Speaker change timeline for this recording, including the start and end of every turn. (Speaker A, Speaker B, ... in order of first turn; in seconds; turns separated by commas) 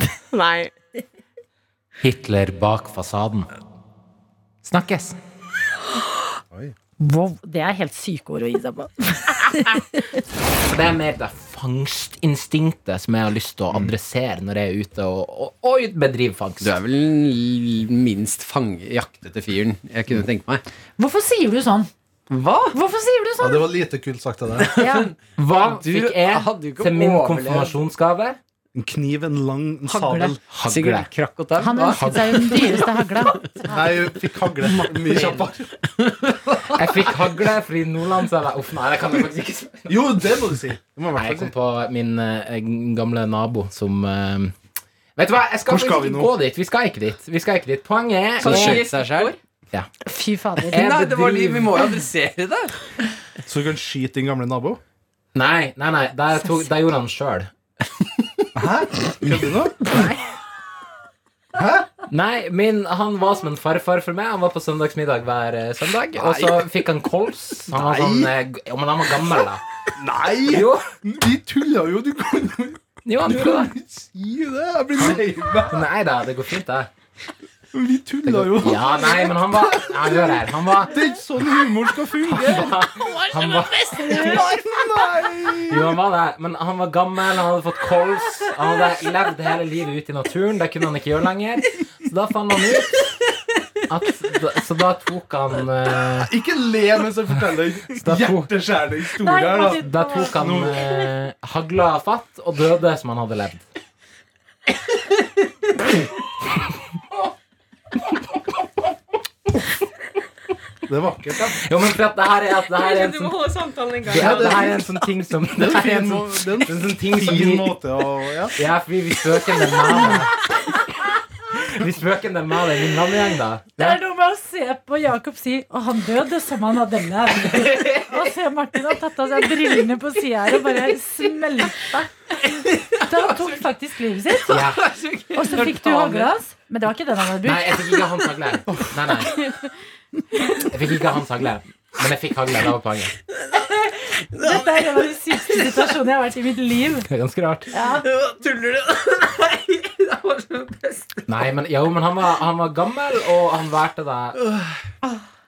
Speaker A: 0.3-0.7, Speaker B: 2.0-3.5, Speaker B: 4.6-5.2, Speaker C: 7.0-10.2, Speaker B: 10.6-16.8, Speaker D: 16.6-20.6, Speaker C: 21.0-21.9, Speaker D: 22.3-22.8, Speaker C: 22.7-23.7, Speaker E: 23.4-24.7, Speaker D: 24.6-27.8, Speaker C: 24.8-25.1, Speaker B: 25.4-28.4, Speaker E: 28.8-30.4, Speaker C: 29.9-30.2, Speaker D: 30.1-33.6, Speaker B: 30.5-32.8, Speaker C: 31.6-33.8, Speaker E: 33.7-35.7, Speaker D: 34.9-36.8, Speaker B: 36.7-40.0, Speaker E: 39.9-41.5, Speaker B: 41.1-44.6, Speaker B: 45.2-48.9, Speaker E: 45.7-46.4, Speaker A: 48.4-49.4, Speaker D: 48.4-49.3, Speaker C: 50.0-50.9, Speaker D: 50.7-52.7, Speaker B: 50.7-51.9, Speaker E: 53.5-54.8, Speaker B: 55.3-57.5, Speaker E: 58.5-59.9, Speaker E: 61.5-61.9, Speaker B: 62.1-69.6, Speaker E: 66.2-66.7, Speaker E: 67.7-68.3, Speaker E: 70.0-75.9, Speaker B: 70.5-70.9, Speaker B: 73.0-73.8, Speaker B: 75.0-76.9, Speaker E: 77.7-83.0, Speaker B: 78.2-81.0, Speaker B: 82.2-84.7, Speaker D: 84.0-84.4, Speaker E: 84.1-86.0, Speaker B: 85.7-93.1, Speaker B: 93.9-96.3, Speaker E: 96.2-100.9, Speaker B: 98.0-98.5, Speaker C: 99.2-100.6, Speaker B: 99.6-103.6, Speaker E: 110.9-111.6, Speaker B: 111.6-113.4, Speaker A: 112.8-114.7, Speaker B: 114.1-117.7, Speaker E: 114.2-114.8, Speaker E: 115.5-118.5, Speaker B: 118.6-120.5, Speaker B: 121.5-123.9, Speaker C: 123.8-132.1, Speaker C: 133.0-134.8, Speaker B: 134.5-136.3, Speaker D: 134.6-136.1, Speaker C: 135.3-137.9, Speaker B: 137.4-139.5, Speaker B: 140.6-143.2, Speaker D: 143.4-143.7, Speaker C: 144.3-147.1, Speaker D: 144.3-145.9, Speaker B: 147.1-147.7, Speaker C: 147.7-148.1, Speaker D: 148.0-151.5, Speaker B: 151.3-154.4, Speaker D: 154.3-154.8